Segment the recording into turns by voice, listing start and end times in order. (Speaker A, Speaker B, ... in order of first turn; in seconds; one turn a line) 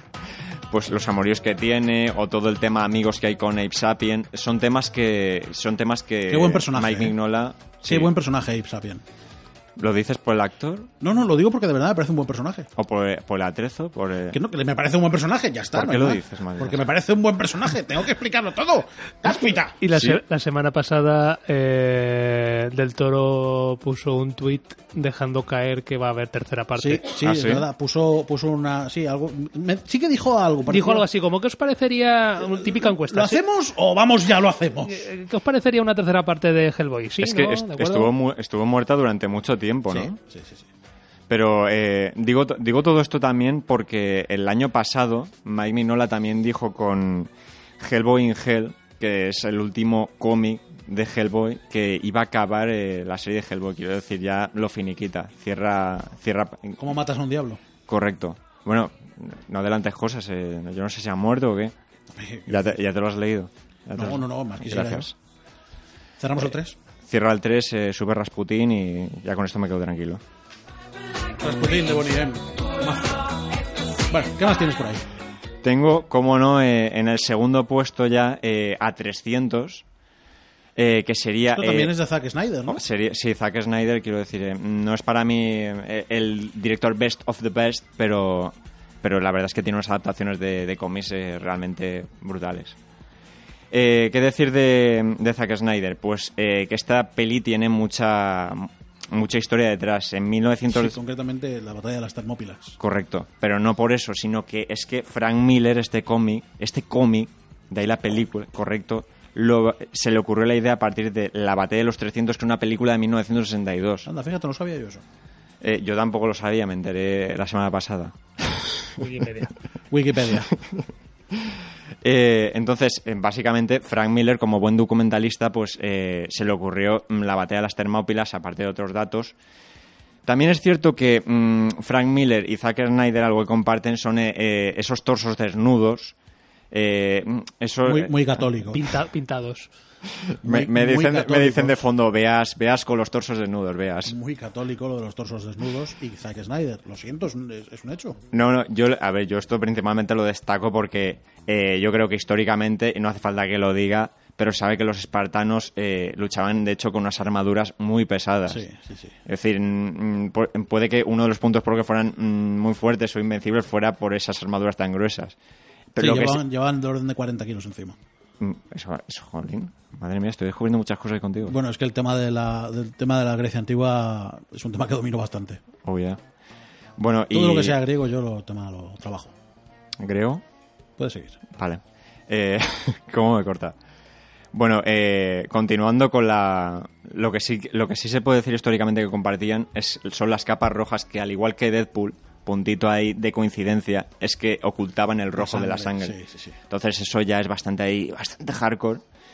Speaker A: 0.7-8.1
Speaker B: 6.3-7.2
Speaker B: 7.8-9.0
Speaker A: 9.8-10.9
Speaker B: 11.0-12.7
Speaker A: 12.8-14.4
Speaker B: 14.3-19.8
Speaker A: 15.7-16.8
Speaker C: 19.8-27.0
Speaker A: 19.9-20.2
Speaker B: 26.8-31.1
Speaker A: 27.2-27.6
Speaker C: 30.7-33.4
Speaker B: 32.4-35.1
Speaker C: 34.9-38.1
Speaker A: 37.2-40.2
Speaker B: 39.9-40.6
Speaker A: 41.3-56.8
Speaker B: 56.8-57.6
Speaker A: 57.9-61.7
Speaker B: 62.1-62.7
Speaker A: 62.5-65.1
Speaker B: 63.9-65.1
Speaker B: 66.2-66.8
Speaker A: 67.1-70.2
Speaker B: 71.4-73.3
Speaker B: 74.1-75.0
Speaker A: 75.6-79.8
Speaker A: 80.8-81.9
Speaker B: 81.5-82.8
Speaker A: 82.7-92.7
Speaker A: 93.7-101.0
Speaker B: 100.7-102.7
Speaker A: 102.8-114.1
Speaker B: 114.0-115.0
Speaker A: 115.6-119.0
Speaker C: 119.0-119.5
Speaker B: 119.9-120.5
Speaker A: 122.0-129.3
Speaker A: 130.2-136.1
Speaker A: 136.7-138.3
Speaker B: 137.8-138.8
Speaker C: 138.7-139.7
Speaker A: 140.3-144.1
Speaker B: 140.4-141.8
Speaker B: 144.0-148.2
Speaker A: 148.3-158.6
Speaker B: 158.5-159.1
Speaker A: 159.3-165.3
Speaker A: 165.9-166.4
Speaker B: 166.0-168.0
Speaker A: 168.4-171.6
Speaker B: 171.5-175.6
Speaker A: 175.8-176.2
Speaker A: 177.0-177.8
Speaker B: 177.3-179.3
Speaker A: 180.0-180.4
Speaker B: 181.0-181.4
Speaker A: 181.6-183.7
Speaker A: 184.5-196.1
Speaker B: 195.3-196.6
Speaker A: 196.7-199.0